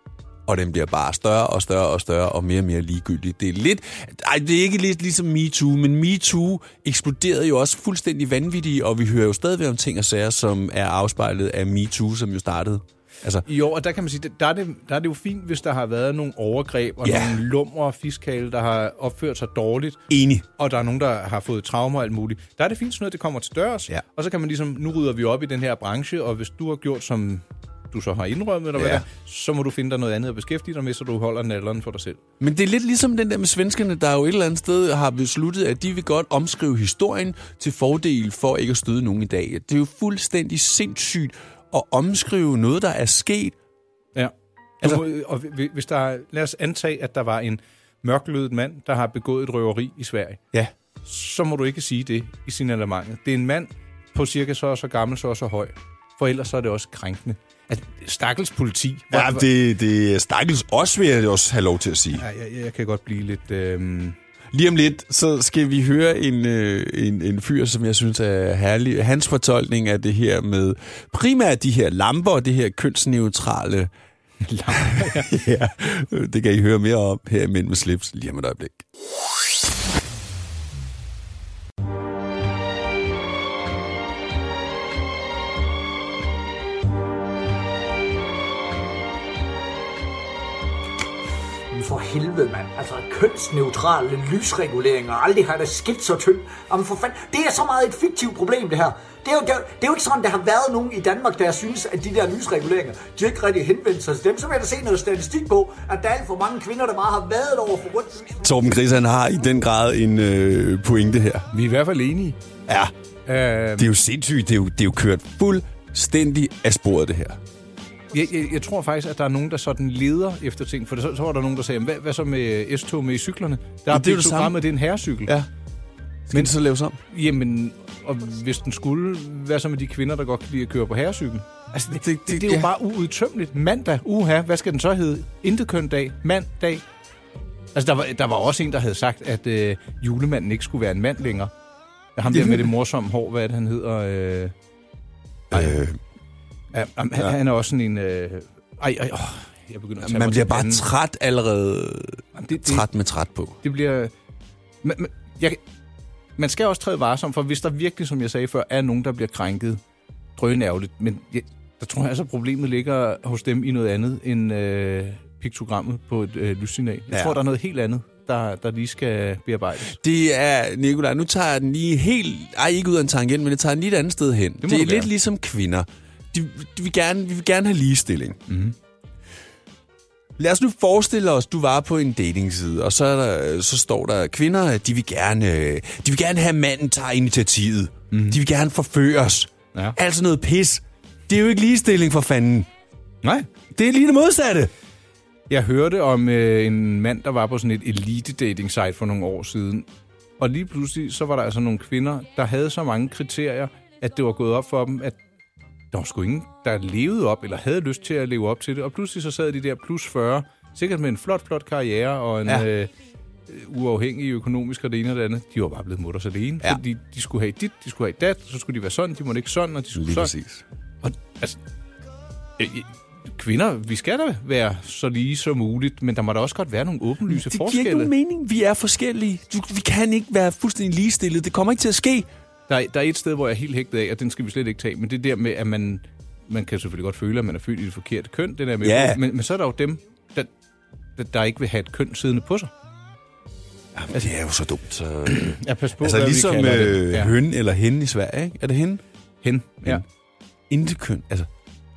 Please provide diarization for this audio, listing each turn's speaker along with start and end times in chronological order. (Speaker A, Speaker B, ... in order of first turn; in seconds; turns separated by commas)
Speaker A: 0.5-13.4, Speaker B: 13.4-20.0, Speaker A: 17.0-17.4, Speaker A: 20.1-20.4, Speaker B: 20.6-32.2, Speaker A: 28.8-29.0, Speaker A: 32.4-43.5, Speaker B: 44.1-50.4, Speaker B: 51.0-59.5, Speaker A: 59.1-62.2, Speaker B: 62.1-64.2, Speaker A: 64.5-73.9, Speaker B: 74.4-75.3, Speaker A: 74.7-78.8, Speaker C: 91.7-108.5, Speaker A: 108.4-111.5, Speaker B: 111.5-112.4, Speaker A: 112.7-112.9, Speaker B: 113.2-113.9, Speaker A: 113.8-117.4, Speaker B: 118.1-125.3, Speaker A: 123.9-124.6, Speaker A: 126.3-127.0, Speaker B: 127.0-136.8, Speaker A: 131.9-132.7, Speaker B: 137.7-141.5, Speaker B: 142.2-144.5, Speaker A: 142.3-142.7, Speaker A: 145.5-146.0, Speaker B: 145.5-145.8, Speaker B: 146.7-150.9, Speaker A: 150.0-153.6, Speaker B: 152.3-152.9, Speaker B: 153.6-154.1, Speaker B: 154.8-155.6, Speaker B: 156.4-159.8, Speaker B: 160.4-170.0, Speaker A: 167.1-167.4, Speaker A: 169.9-178.4, Speaker B: 174.6-175.1, Speaker B: 178.5-178.7, Speaker A: 180.4-192.7, Speaker B: 188.1-188.4, Speaker B: 193.2-193.5, Speaker A: 193.7-194.7, Speaker B: 195.5-199.9, Speaker B: 200.4-205.2, Speaker B: 205.9-212.9, Speaker B: 213.5-220.3, Speaker A: 219.9-220.6, Speaker B: 221.0-221.6, Speaker B: 222.6-228.1, Speaker A: 227.3-232.3, Speaker B: 232.7-240.5, Speaker A: 238.8-239.2, Speaker B: 241.2-242.7, Speaker A: 243.9-249.0, Speaker B: 245.3-247.4, Speaker B: 249.4-250.0, Speaker A: 250.7-251.5